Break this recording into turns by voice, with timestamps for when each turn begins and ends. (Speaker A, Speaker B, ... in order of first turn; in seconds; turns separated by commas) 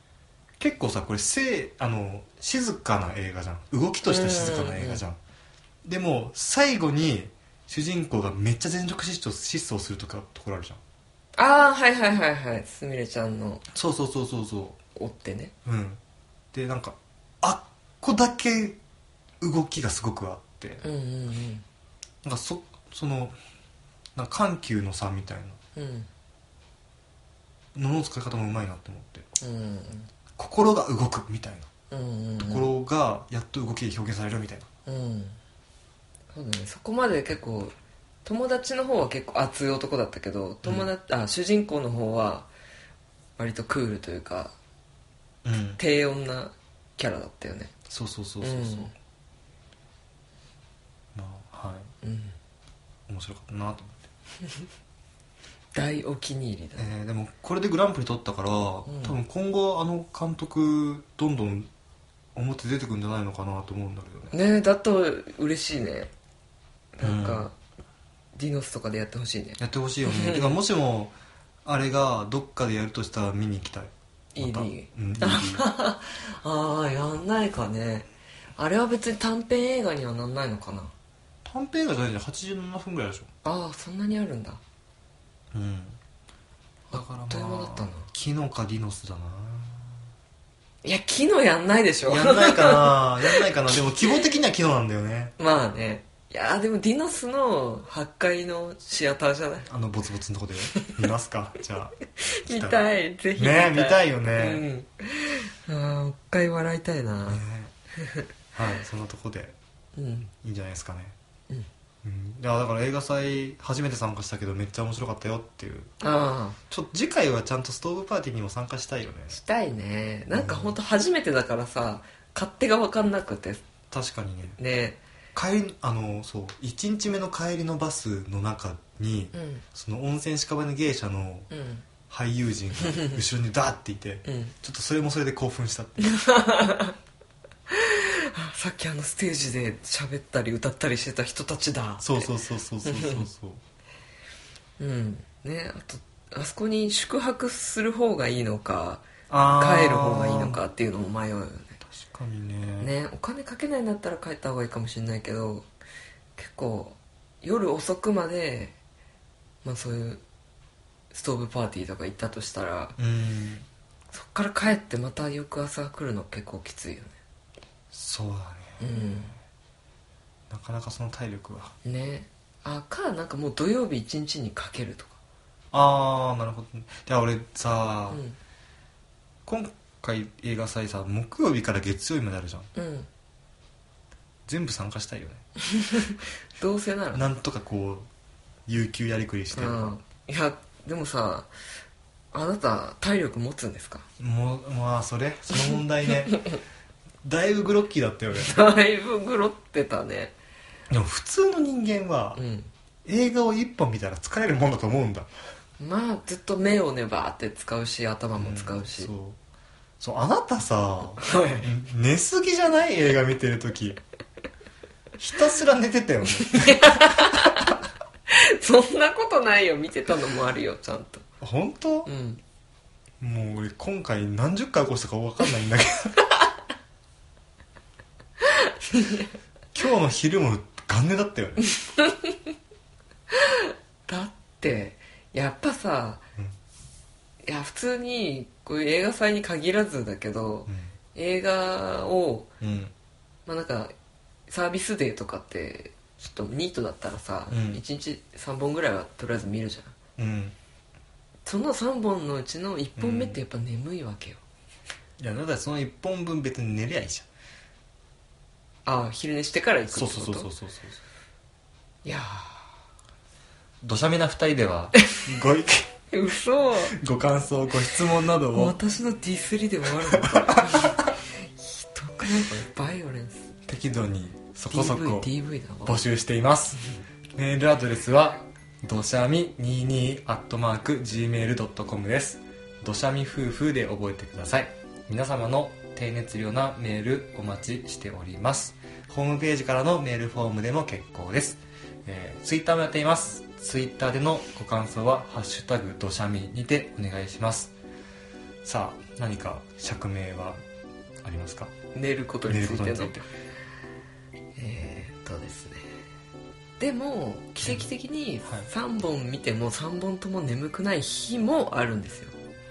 Speaker A: 0.6-5.2, Speaker B: 4.0-5.0, Speaker A: 5.8-10.8, Speaker B: 11.4-13.6, Speaker A: 13.7-14.8, Speaker B: 14.9-15.5, Speaker A: 15.6-16.0, Speaker A: 16.5-18.8, Speaker A: 19.4-20.8, Speaker B: 20.8-21.6, Speaker A: 22.2-23.4, Speaker A: 24.1-25.6, Speaker B: 25.8-26.1, Speaker A: 27.7-29.3, Speaker B: 29.4-30.1, Speaker A: 30.4-31.7, Speaker B: 31.9-32.7, Speaker A: 32.4-34.7, Speaker B: 34.9-35.4, Speaker B: 36.3-37.7, Speaker B: 38.2-42.5, Speaker A: 40.6-40.9, Speaker B: 43.4-44.5, Speaker A: 45.4-45.8, Speaker B: 45.8-47.7, Speaker A: 47.9-48.9, Speaker B: 48.4-48.9, Speaker A: 51.1-51.9, Speaker B: 52.0-52.4, Speaker A: 53.1-54.1, Speaker B: 55.7-56.9, Speaker A: 56.8-61.7, Speaker B: 58.9-59.1, Speaker A: 62.3-64.3, Speaker B: 64.3-66.1, Speaker B: 67.0-67.5, Speaker A: 67.0-67.5, Speaker B: 68.3-70.6, Speaker A: 69.6-71.1, Speaker A: 71.6-75.6, Speaker B: 74.3-80.9, Speaker A: 81.4-83.3, Speaker B: 83.4-84.6, Speaker A: 85.5-86.0, Speaker A: 86.9-90.0, Speaker B: 86.9-88.1, Speaker B: 90.8-93.4, Speaker A: 92.1-95.3, Speaker B: 95.4-99.7, Speaker A: 99.7-102.8, Speaker B: 102.2-107.4, Speaker A: 103.3-104.6, Speaker A: 107.3-107.7, Speaker B: 108.0-108.2, Speaker A: 108.5-109.5, Speaker B: 110.0-110.3, Speaker A: 110.3-111.1, Speaker A: 112.0-115.9, Speaker B: 116.0-116.6, Speaker A: 116.7-119.4, Speaker B: 119.3-123.6, Speaker A: 120.3-120.8, Speaker A: 123.9-124.6, Speaker B: 124.6-125.0, Speaker A: 125.3-131.5, Speaker B: 129.3-129.6, Speaker B: 131.5-131.8, Speaker A: 132.1-136.2, Speaker B: 132.8-133.2, Speaker B: 134.2-134.5, Speaker B: 136.0-136.9, Speaker B: 137.7-142.3, Speaker A: 142.0-143.6, Speaker B: 142.8-143.2, Speaker B: 144.8-151.8, Speaker A: 149.3-150.6, Speaker A: 151.8-152.9, Speaker B: 152.8-155.7, Speaker B: 156.3-158.7, Speaker B: 159.6-160.2, Speaker B: 161.1-163.0, Speaker A: 163.0-163.7, Speaker B: 164.1-167.1, Speaker A: 167.9-169.3, Speaker B: 168.8-169.3, Speaker A: 170.5-171.7, Speaker B: 171.8-175.2, Speaker A: 175.7-178.2, Speaker B: 178.1-178.4, Speaker A: 179.4-182.7, Speaker B: 182.7-183.1, Speaker A: 184.5-185.4, Speaker B: 185.6-187.3, Speaker A: 187.1-188.1, Speaker A: 188.7-189.9, Speaker B: 189.5-191.5, Speaker B: 192.3-194.0, Speaker A: 194.2-196.4, Speaker A: 197.2-198.6, Speaker B: 198.3-200.3, Speaker A: 200.9-202.4, Speaker B: 202.3-202.7, Speaker A: 203.0-205.3, Speaker B: 205.8-209.1, Speaker A: 208.4-209.4, Speaker A: 210.0-214.0, Speaker B: 211.2-211.7, Speaker A: 215.2-217.7, Speaker B: 216.4-217.8, Speaker B: 218.3-221.2, Speaker A: 221.4-222.1, Speaker B: 222.1-222.4, Speaker A: 223.2-226.2, Speaker B: 228.4-229.3, Speaker A: 229.7-231.7, Speaker B: 231.8-232.4, Speaker B: 233.3-236.2, Speaker B: 237.4-242.5, Speaker A: 240.7-240.9, Speaker A: 242.6-242.9, Speaker B: 243.4-243.9, Speaker B: 244.5-249.9, Speaker A: 247.5-247.8, Speaker A: 250.2-250.5, Speaker B: 251.4-254.4, Speaker A: 252.9-253.4, Speaker A: 255.2-257.2, Speaker B: 258.9-260.5, Speaker A: 259.9-261.0, Speaker B: 262.0-262.6, Speaker A: 263.8-265.9, Speaker B: 266.1-267.0, Speaker A: 266.9-268.8, Speaker B: 268.5-273.5, Speaker A: 270.1-271.1, Speaker A: 273.7-275.3, Speaker B: 274.7-276.0, Speaker A: 275.8-276.8, Speaker A: 277.4-297.7, Speaker A: 298.6-300.6, Speaker A: 301.2-301.7, Speaker B: 301.9-303.2, Speaker A: 302.4-303.2, Speaker B: 304.6-305.8, Speaker B: 306.8-312.3